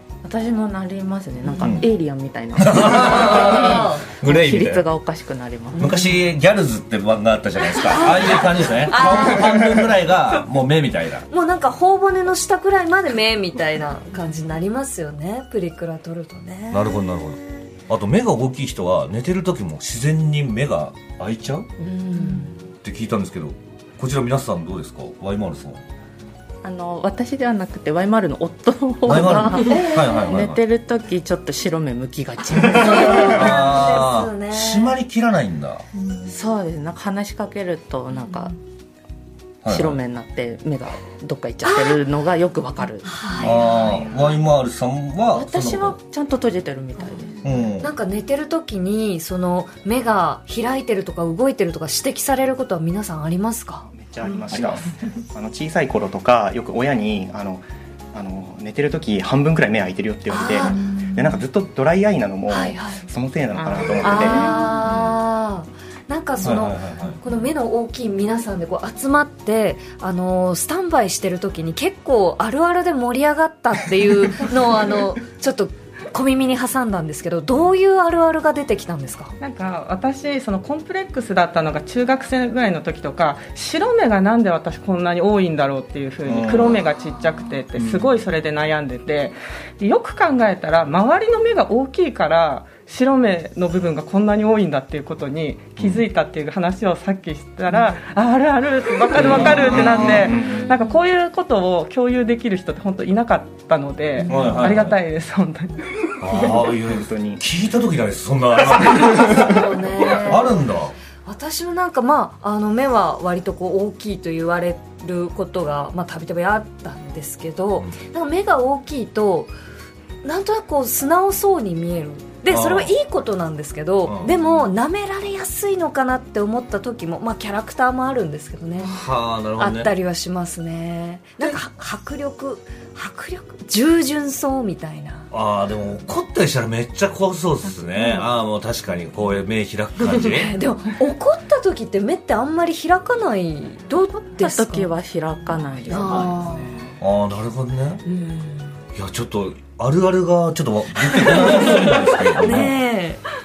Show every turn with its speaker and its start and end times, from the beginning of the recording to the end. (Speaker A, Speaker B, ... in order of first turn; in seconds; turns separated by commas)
Speaker A: 0.2-5.9, Speaker B: 1.6-1.9, Speaker B: 2.6-4.8, Speaker C: 3.0-4.0, Speaker C: 5.7-6.0, Speaker B: 5.8-11.2, Speaker C: 7.9-9.6, Speaker C: 11.3-17.0, Speaker B: 16.7-21.7, Speaker C: 21.8-22.6, Speaker B: 22.8-25.8, Speaker A: 26.6-33.3, Speaker B: 29.0-30.6, Speaker C: 29.6-30.3, Speaker C: 32.7-35.0, Speaker B: 32.8-35.8, Speaker A: 36.2-38.5, Speaker B: 39.6-40.0, Speaker A: 39.7-43.2, Speaker C: 41.6-42.0, Speaker C: 43.0-44.1, Speaker B: 43.4-46.0, Speaker A: 45.3-47.4, Speaker B: 47.4-47.9, Speaker C: 47.8-53.9, Speaker D: 53.9-64.7, Speaker C: 60.3-61.2, Speaker C: 62.5-63.0, Speaker E: 63.6-64.5, Speaker C: 64.0-79.3, Speaker B: 66.4-67.2, Speaker E: 79.4-105.9, Speaker B: 86.2-86.9, Speaker B: 87.8-88.0, Speaker B: 95.8-96.0, Speaker D: 99.2-100.7, Speaker B: 99.2-100.3, Speaker C: 100.0-100.9, Speaker C: 104.2-104.6, Speaker B: 104.3-105.0, Speaker B: 106.2-110.9, Speaker D: 106.4-107.4, Speaker C: 109.2-110.6, Speaker C: 111.2-119.5, Speaker C: 120.2-128.9, Speaker B: 122.5-122.9, Speaker B: 124.0-124.3, Speaker B: 128.8-129.9, Speaker C: 129.6-135.3, Speaker B: 135.3-140.5, Speaker C: 140.0-144.9, Speaker A: 144.4-146.6, Speaker C: 145.9-146.7, Speaker B: 147.0-148.0, Speaker C: 148.1-148.7, Speaker B: 148.9-152.8, Speaker C: 151.2-153.2